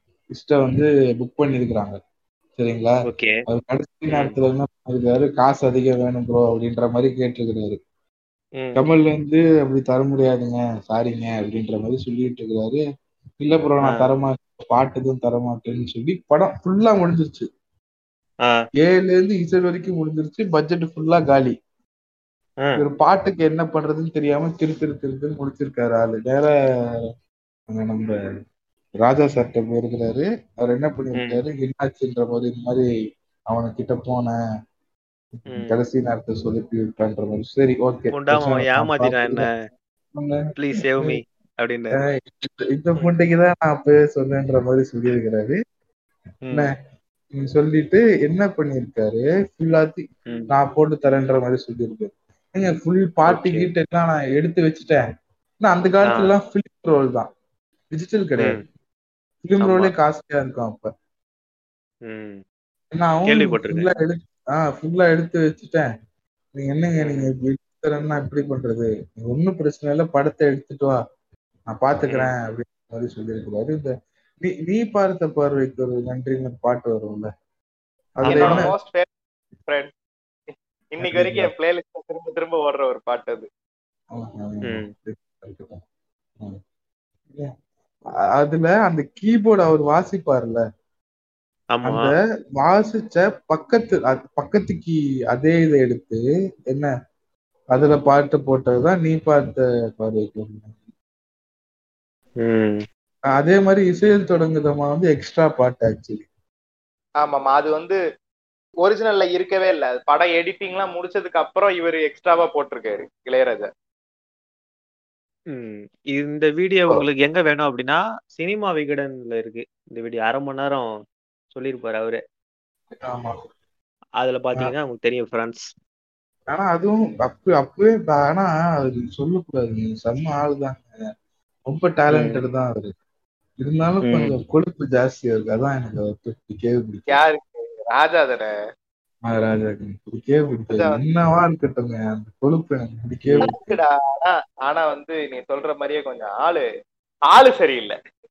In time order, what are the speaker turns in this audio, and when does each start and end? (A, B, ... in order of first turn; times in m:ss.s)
0:00.3-0:02.0 A
0:02.6-0:03.0 A
0:03.1-0:03.3 B
0:03.5-0:07.8 A
0:08.8-0:12.8 A
0:13.4-0:17.5 A
0:18.8-0:21.6 A
0:22.8-0:27.1 A
0:27.7-0:28.2 A
0:29.0-0:32.9 A
0:31.2-0:31.4 B
0:33.5-0:34.4 A
0:35.4-0:39.5 A
0:35.5-0:35.8 B
0:38.1-0:39.5 B
0:40.1-0:40.4 A
0:40.6-0:42.0 B
0:42.0-0:45.6 A
0:47.3-0:55.0 A
0:53.3-0:53.7 B
0:55.6-0:57.3 A
0:56.1-0:56.3 B
0:57.9-0:58.6 A
0:59.4-1:00.9 A
0:59.6-0:59.9 B
1:02.1-1:02.4 B
1:02.9-1:05.9 A
1:03.3-1:03.9 B
1:06.5-1:11.0 A
1:07.0-1:07.3 B
1:11.7-1:13.9 A
1:12.1-1:12.3 B
1:14.4-1:17.3 A
1:18.2-1:18.7 A
1:18.3-1:18.7 B
1:18.3-1:19.1 C
1:19.7-1:19.9 C
1:20.9-1:23.5 C
1:21.0-1:21.5 A
1:24.1-1:25.8 A
1:28.4-1:30.6 A
1:31.7-1:32.1 B
1:31.8-1:36.2 A
1:37.7-1:40.8 A
1:42.4-1:42.8 B
1:43.3-1:46.3 A
1:47.2-1:48.0 C
1:48.8-1:53.7 C
1:55.5-2:00.8 B
2:01.5-2:02.2 B
2:03.0-2:03.4 A
2:04.2-2:05.7 B
2:06.5-2:11.0 A
2:11.7-2:12.9 A
2:12.1-2:12.4 B
2:13.6-2:17.2 A
2:14.0-2:14.3 B
2:17.1-2:18.5 C
2:19.3-2:23.8 A
2:20.7-2:21.0 C
2:23.3-2:23.5 B
2:23.5-2:26.7 C
2:27.3-2:28.0 C